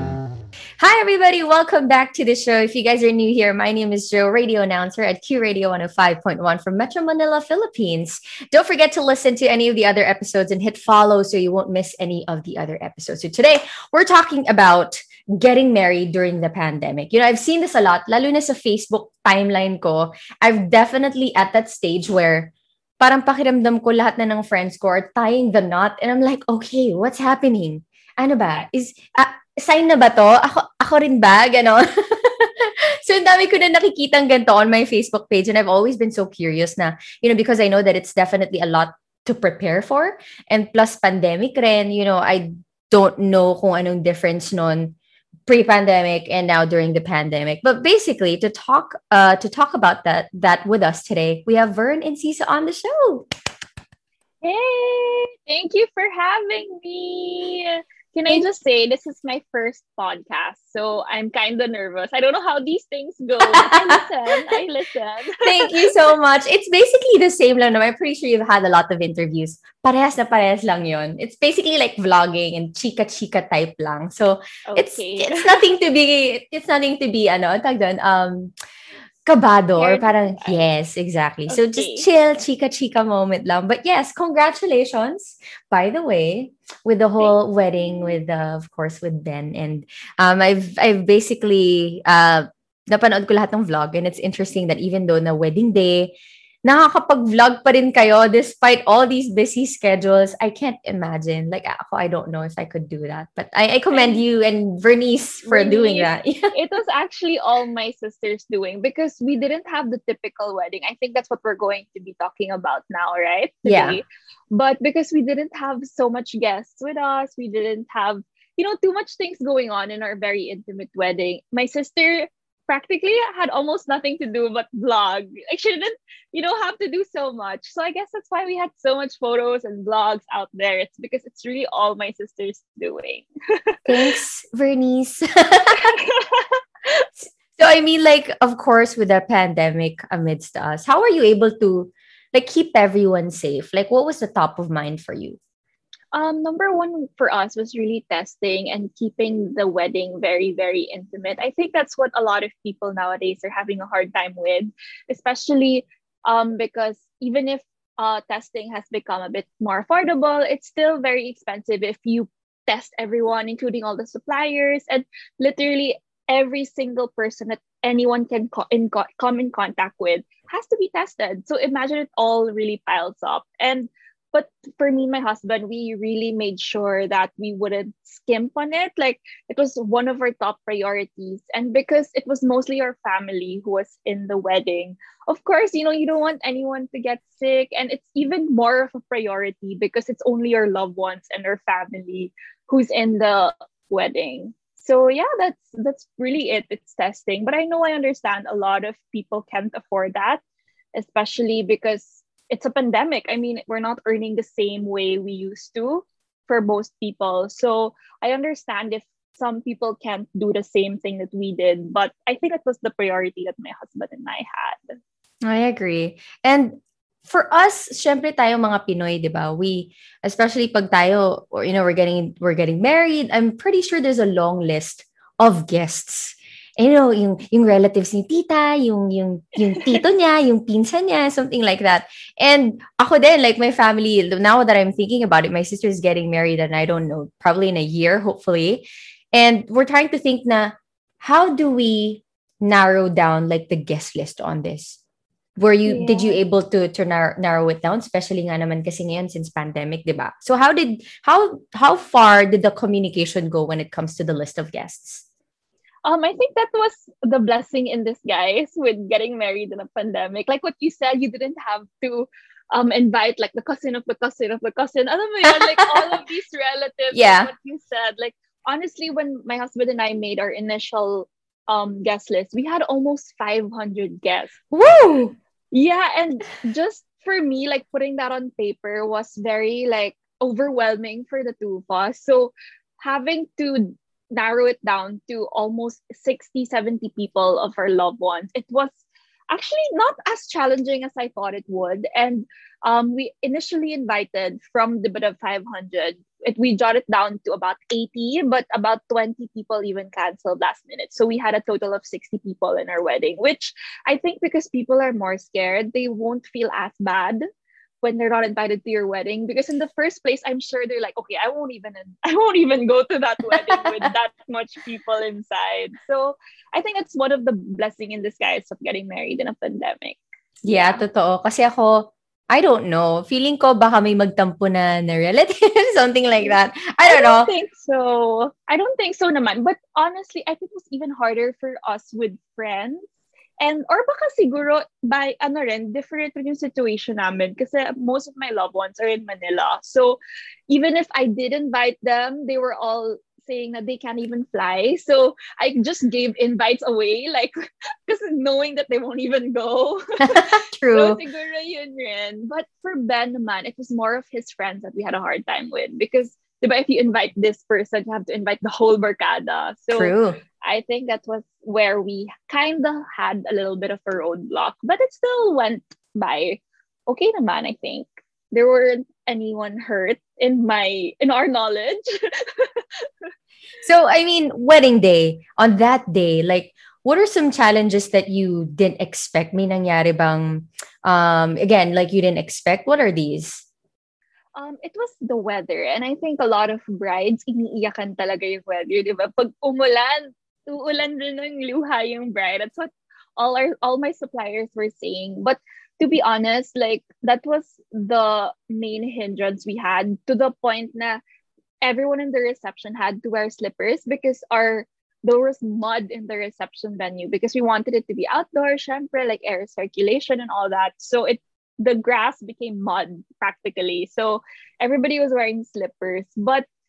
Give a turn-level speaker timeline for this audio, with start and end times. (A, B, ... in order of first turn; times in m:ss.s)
0:00.8-0:53.3 A
0:54.4-1:05.9 B
1:03.5-1:04.0 A
1:05.4-1:18.5 A
1:14.7-1:15.6 B
1:19.3-1:36.1 A
1:19.8-1:20.7 B
1:21.5-1:22.1 B
1:27.2-1:28.2 B
1:36.6-1:46.5 A
1:43.9-1:44.2 B
1:45.4-2:13.8 B
1:53.6-1:54.0 A
2:13.9-2:15.9 A
2:15.8-2:17.1 B
2:17.6-2:25.4 A
2:26.1-3:20.4 B
3:21.0-3:35.0 B
3:35.5-4:05.0 A
4:05.6-4:15.2 A
4:05.8-4:06.4 B
4:16.0-4:34.5 B
4:27.1-4:27.5 A
4:34.7-4:35.4 A
4:35.7-4:49.0 B
4:49.5-5:07.4 B
5:08.0-5:21.0 B
5:20.6-5:27.5 A
5:26.4-5:33.0 B
5:33.6-5:47.5 B
5:48.1-6:13.1 B
5:50.2-5:51.2 A
5:59.9-6:00.4 A
6:13.8-6:23.6 A
6:24.6-6:41.2 B
6:41.8-6:56.6 B